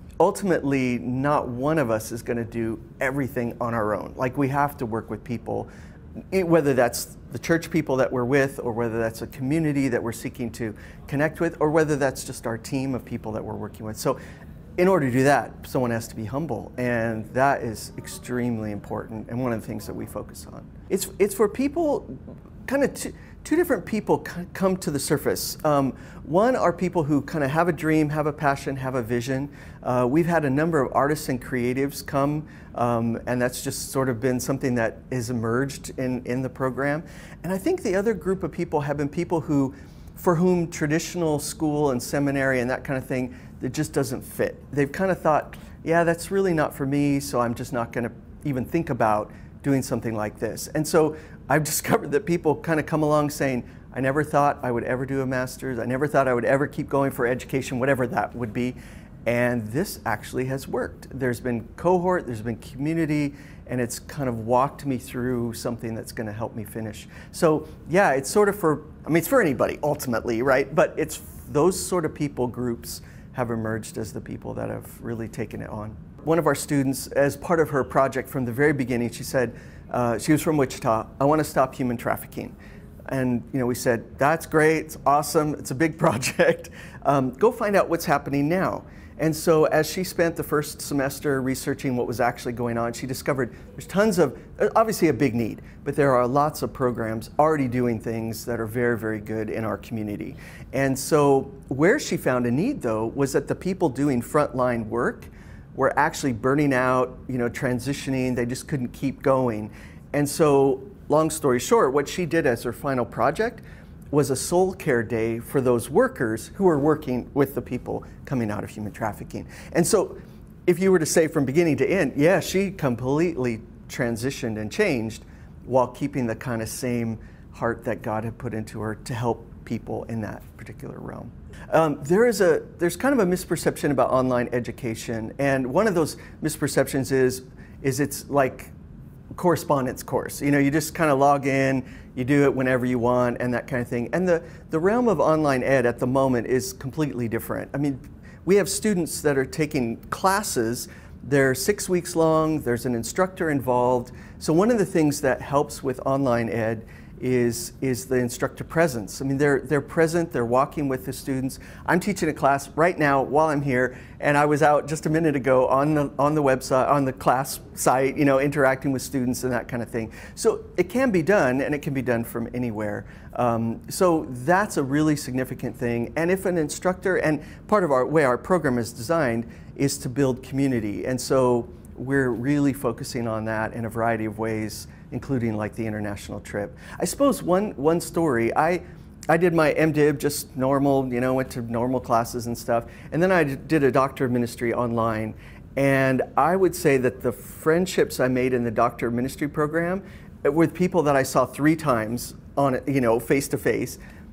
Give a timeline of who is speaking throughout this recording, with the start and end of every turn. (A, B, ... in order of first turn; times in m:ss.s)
0:00.2-0:05.7 A
0:06.3-0:14.2 A
0:14.8-1:22.5 A
1:23.1-2:18.7 A
2:19.4-3:24.0 A